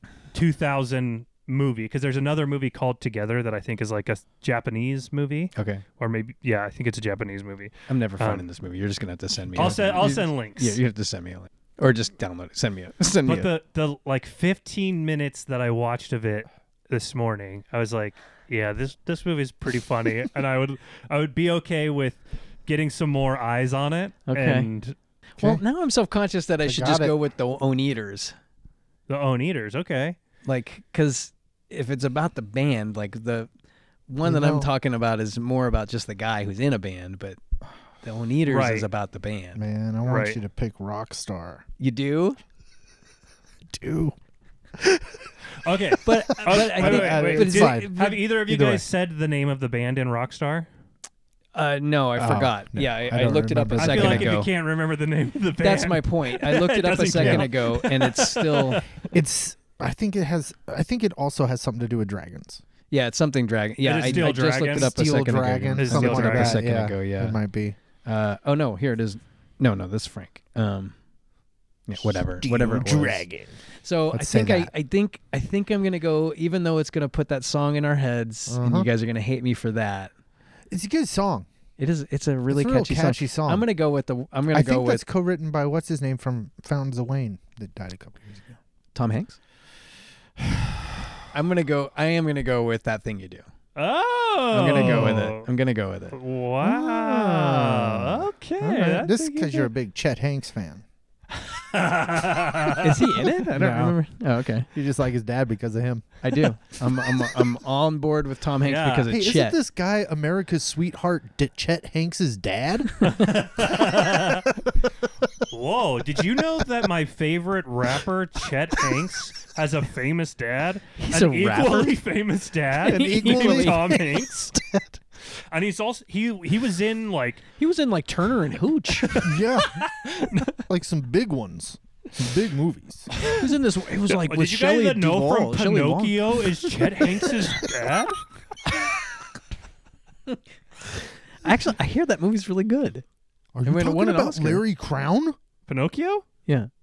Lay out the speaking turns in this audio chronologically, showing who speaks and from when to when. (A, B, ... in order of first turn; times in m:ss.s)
0:00.3-0:08.5 A
0:05.6-0:05.8 B
0:07.9-0:13.5 B
0:09.6-0:10.8 A
0:13.3-0:25.0 A
0:24.3-0:24.7 B
0:25.4-0:28.3 B
0:26.6-0:27.2 C
0:29.1-0:30.2 A
0:30.4-0:33.5 B
0:34.1-0:37.4 B
0:34.2-0:34.7 C
0:38.0-0:39.6 B
0:38.5-0:38.9 A
0:39.6-0:41.6 C
0:40.1-0:40.4 A
0:41.8-0:42.4 B
0:43.7-0:44.2 C
0:44.8-0:45.3 C
0:45.6-0:50.7 A
0:45.9-0:48.8 C
0:46.0-0:48.2 B
0:51.5-0:54.5 B
0:52.2-0:54.4 C
0:53.8-0:59.0 A
0:55.6-0:58.9 B
0:57.2-0:57.5 C
0:59.1-1:02.6 C
1:02.9-1:07.4 B
1:03.8-1:05.0 A
1:04.1-1:07.8 C
1:05.8-1:06.6 A
1:08.0-1:10.9 B
1:11.9-1:13.3 B
1:12.0-1:13.6 C
1:13.8-1:20.1 B
1:14.1-1:14.7 C
1:18.5-1:18.9 C
1:20.7-1:21.5 C
1:21.8-1:25.0 B
1:22.5-1:23.7 C
1:24.5-1:28.6 C
1:29.0-1:29.4 B
1:31.3-1:33.4 B
1:33.8-1:35.5 A
1:34.5-1:36.2 B
1:34.7-1:35.2 C
1:36.1-1:39.7 A
1:36.6-1:40.8 C
1:41.4-1:43.3 A
1:42.8-1:44.7 B
1:43.5-1:44.0 C
1:44.7-1:46.2 C
1:46.2-1:49.6 B
1:48.6-1:49.1 A
1:49.1-1:55.3 C
1:53.0-1:54.5 A
1:55.5-2:04.5 A
2:01.0-2:02.0 B
2:02.8-2:04.4 B
2:02.9-2:04.0 C
2:04.5-2:05.0 C
2:05.5-2:07.4 A
2:07.6-2:09.3 B
2:09.0-2:10.5 A
2:09.2-2:09.8 C
2:10.5-2:13.1 C
2:13.3-2:17.3 B
2:14.1-2:18.2 A
2:21.4-2:23.0 B
2:23.5-2:25.4 C
2:23.6-2:24.6 B
2:25.7-2:26.2 A